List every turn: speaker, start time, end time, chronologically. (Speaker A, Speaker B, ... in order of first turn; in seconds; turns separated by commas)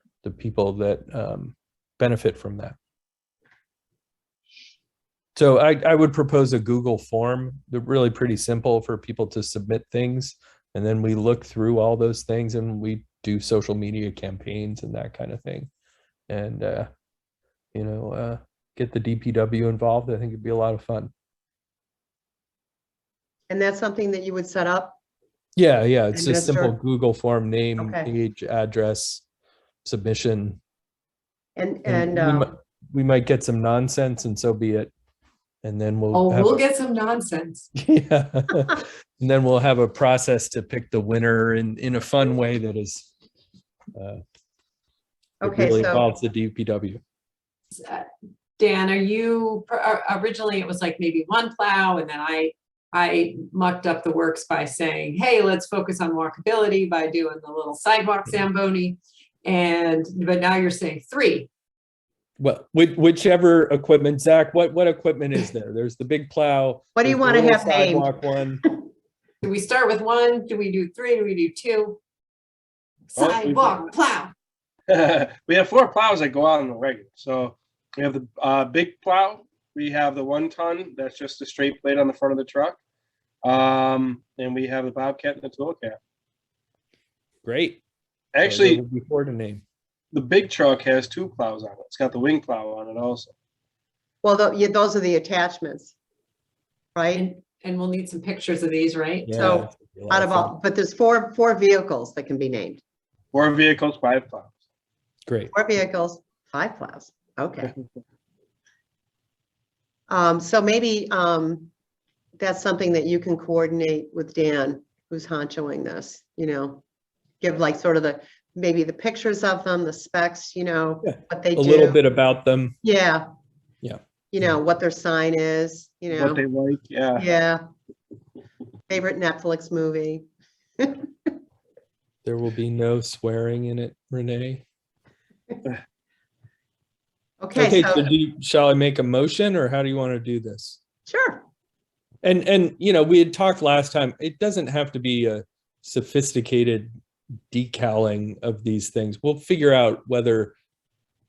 Speaker A: 0.2-2.8, Speaker A: 5.3-15.7, Speaker A: 16.3-16.9, Speaker A: 17.7-21.1, Speaker B: 23.5-25.0, Speaker A: 25.6-29.2, Speaker B: 26.1-26.7, Speaker B: 27.8-28.1, Speaker A: 29.8-30.6, Speaker B: 31.6-32.5, Speaker A: 31.9-34.9, Speaker A: 35.6-36.6, Speaker C: 36.1-37.6, Speaker A: 37.7-43.1, Speaker A: 43.9-44.2, Speaker B: 45.4-46.0, Speaker A: 45.4-47.0, Speaker C: 47.8-48.1, Speaker C: 48.6-61.5, Speaker A: 62.4-68.6, Speaker B: 66.9-68.1, Speaker C: 69.4-72.0, Speaker C: 73.1-74.3, Speaker D: 73.2-73.8, Speaker D: 74.9-82.8, Speaker D: 83.4-86.0, Speaker A: 87.4-87.8, Speaker D: 88.3-88.8, Speaker A: 88.4-89.6, Speaker D: 90.1-93.3, Speaker B: 94.2-95.9, Speaker B: 96.9-97.2, Speaker C: 97.1-99.4, Speaker A: 99.2-100.5, Speaker B: 99.4-102.8, Speaker D: 103.3-104.5, Speaker A: 105.3-105.5, Speaker B: 105.5-107.7, Speaker B: 110.1-111.7, Speaker B: 112.4-116.8, Speaker B: 117.4-122.0, Speaker A: 121.0-122.8, Speaker B: 122.8-123.2, Speaker B: 124.3-126.4, Speaker D: 126.1-127.2, Speaker B: 127.2-127.6, Speaker B: 128.9-130.2, Speaker B: 130.8-131.3, Speaker A: 132.2-134.6, Speaker B: 137.4-138.1, Speaker A: 137.6-140.8, Speaker B: 141.1-141.4, Speaker A: 142.2-146.9, Speaker A: 147.5-150.5